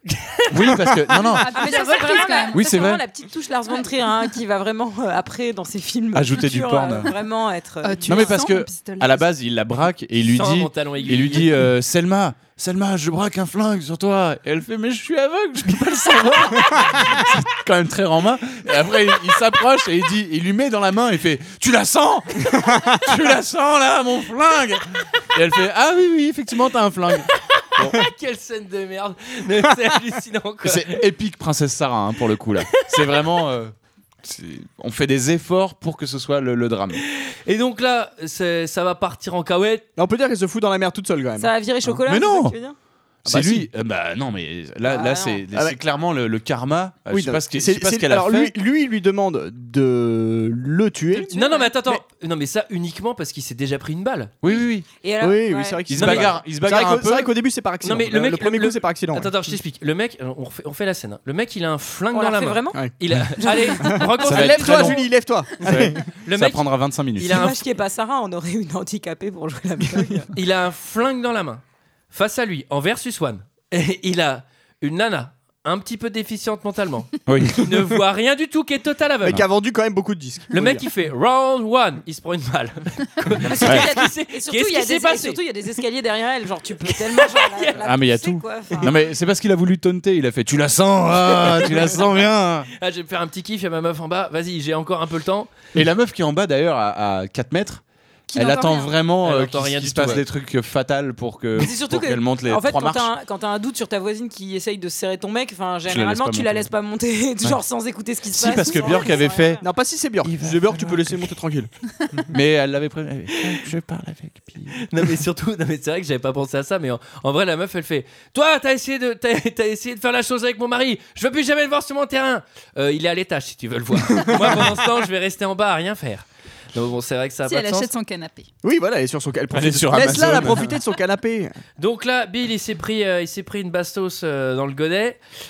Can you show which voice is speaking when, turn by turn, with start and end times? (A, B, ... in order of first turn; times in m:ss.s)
0:00.5-0:01.6 A
0:01.4-0:02.6 B
0:01.5-0:08.4 C
0:02.5-0:03.0 A
0:06.1-0:07.1 A
0:07.8-0:09.3 B
0:08.0-0:28.0 A
0:10.2-0:11.5 D
0:27.8-0:31.0 D
0:30.6-0:37.0 A
0:37.1-0:39.9 D
0:40.0-0:41.5 E
0:41.4-0:42.8 C
0:42.0-0:42.6 A
0:43.2-0:48.6 A
0:43.2-0:43.7 E
0:44.8-0:45.4 C
0:47.1-0:52.0 E
0:51.1-0:51.7 C
0:51.3-0:54.3 D
0:54.4-0:54.9 A
0:55.0-0:56.3 C
0:55.2-0:59.6 E
0:55.9-0:57.3 A
0:57.8-1:05.0 D
1:02.1-1:02.8 C
1:02.7-1:06.0 E
1:03.5-1:03.9 C
1:04.2-1:05.0 A
1:05.6-1:07.6 D
1:05.6-1:07.4 A
1:07.2-1:10.3 C
1:10.3-1:19.4 D
1:17.2-1:17.7 A
1:19.2-1:20.8 E
1:20.5-1:25.4 D
1:23.4-1:29.0 C
1:23.6-1:23.9 A
1:26.9-1:27.8 D
1:27.8-1:32.7 A
1:31.6-1:31.9 D
1:32.8-1:35.5 D
1:35.7-1:37.8 A
1:38.3-1:38.9 B
1:38.3-1:43.1 A
1:39.2-1:40.2 D
1:41.6-1:49.6 C
1:45.9-1:46.7 A
1:48.3-1:49.6 A
1:49.6-1:51.7 E
1:50.2-1:51.4 A
1:52.3-1:54.9 A
1:54.8-2:07.9 D
2:04.2-2:04.7 E
2:07.4-2:08.5 B
2:08.6-2:11.5 E
2:09.5-2:10.8 A
2:11.8-2:15.2 D